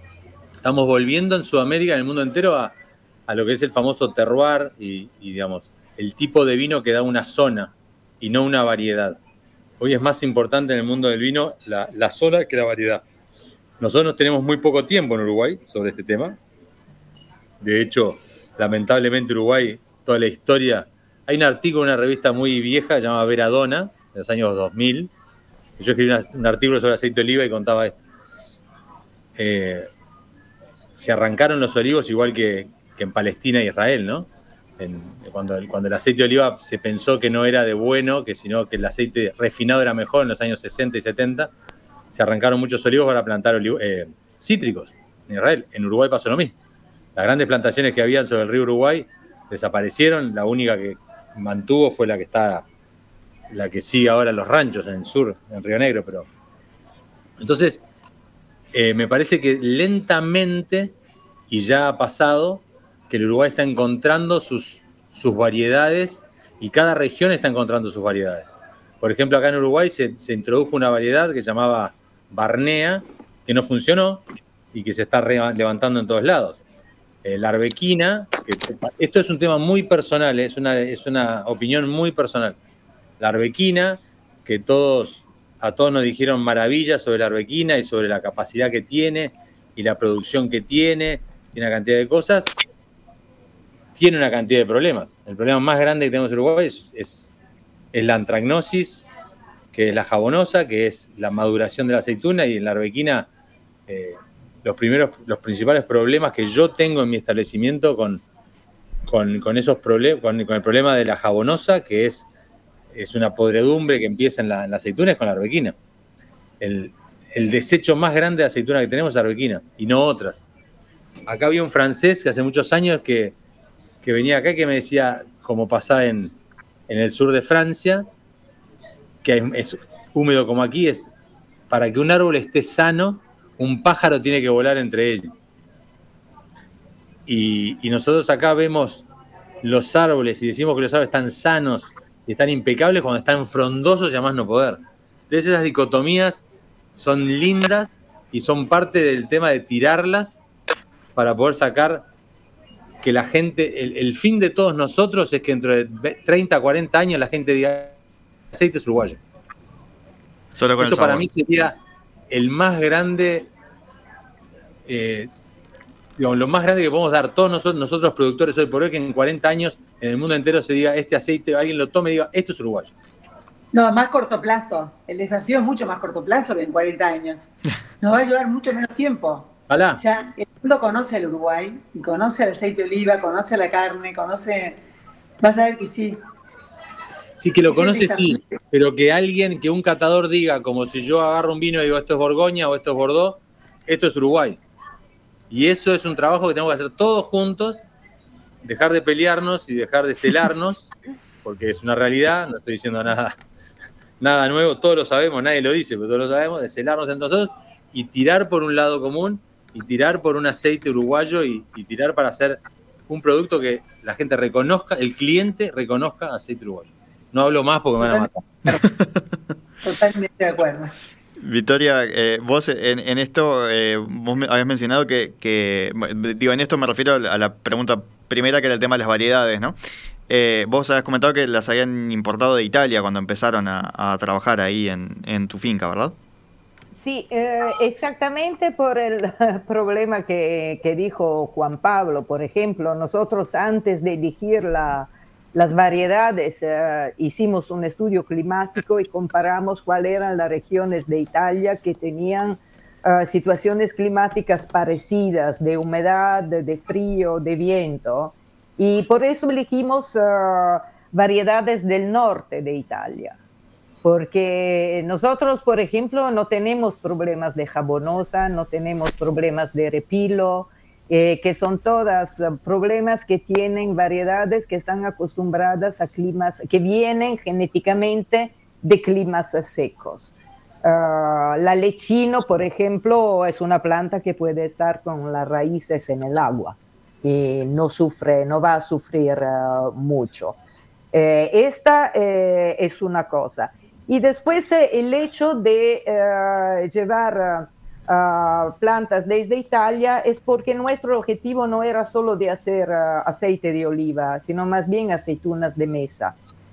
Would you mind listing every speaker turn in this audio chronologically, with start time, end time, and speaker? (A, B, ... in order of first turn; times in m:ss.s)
0:00.6-0:02.7 A
0:03.3-0:09.2 A
0:09.8-0:13.0 A
0:13.8-0:16.4 A
0:17.6-0:25.1 A
0:25.8-0:28.0 A
0:29.4-0:29.9 A
0:31.0-0:34.3 A
0:34.8-0:41.5 A
0:42.1-0:46.5 A
0:47.2-0:52.6 A
0:53.5-0:56.3 A
0:57.4-0:57.8 A
0:58.7-1:00.9 A
1:01.5-1:16.6 A
1:17.2-1:22.6 A
1:23.2-1:32.5 A
1:34.0-1:37.3 A
1:37.9-1:39.1 A
1:39.7-1:43.3 A
1:43.9-1:48.2 A
1:49.1-1:52.3 A
1:52.9-1:55.8 A
1:56.6-2:00.4 A
2:01.3-2:03.4 A
2:04.0-2:06.3 A
2:06.9-2:08.1 A
2:09.2-2:11.1 A
2:11.7-2:15.3 A
2:17.3-2:19.1 A
2:19.6-2:30.4 A
2:31.2-2:32.1 A
2:33.0-2:38.0 A
2:38.5-2:39.2 A
2:40.6-2:41.3 B
2:40.8-2:41.8 A
2:42.3-2:43.5 A
2:44.9-2:45.3 A
2:46.2-2:52.9 A
2:53.7-2:57.5 C
2:58.0-3:04.8 C
2:59.7-3:00.0 A
3:05.4-3:06.2 C
3:07.4-3:14.6 A
3:07.7-3:08.5 C
3:15.5-3:17.8 A
3:18.6-3:20.9 A
3:21.4-3:23.4 A
3:24.2-3:38.3 A
3:38.0-3:38.8 C
3:39.8-3:40.9 C
3:41.4-3:49.8 B
3:50.3-3:56.2 B
3:57.0-4:23.4 D
4:24.0-4:50.6 D
4:51.1-5:06.4 D